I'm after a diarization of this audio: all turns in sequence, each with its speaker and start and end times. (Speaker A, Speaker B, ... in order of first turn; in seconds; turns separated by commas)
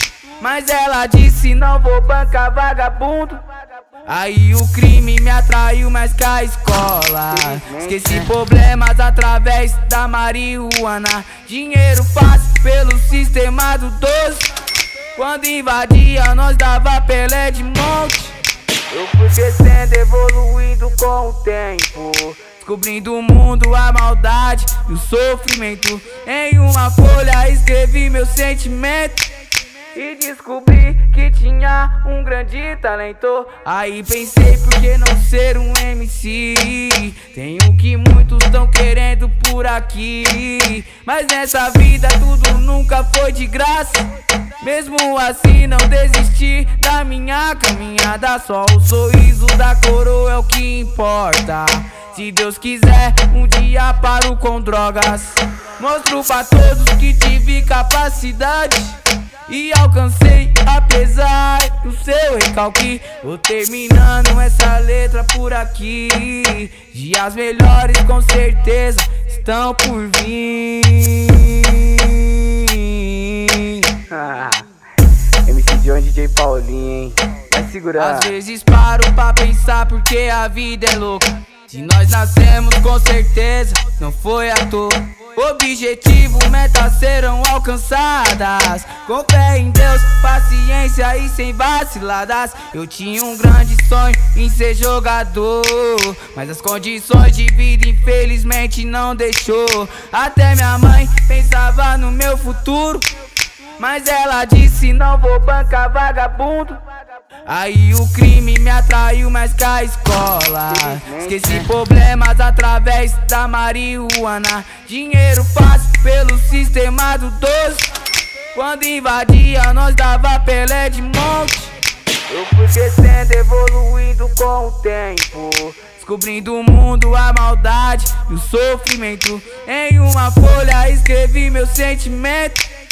Speaker A: 0.4-3.4, Speaker A: 4.0-14.5, Speaker B: 7.5-8.2, Speaker A: 15.2-18.4, Speaker A: 18.9-29.3, Speaker A: 29.9-44.1, Speaker A: 44.6-74.7, Speaker B: 75.5-78.3, Speaker A: 78.0-103.1, Speaker A: 103.8-106.8, Speaker A: 107.5-117.9, Speaker B: 110.8-111.7, Speaker A: 118.5-121.8, Speaker A: 122.3-132.7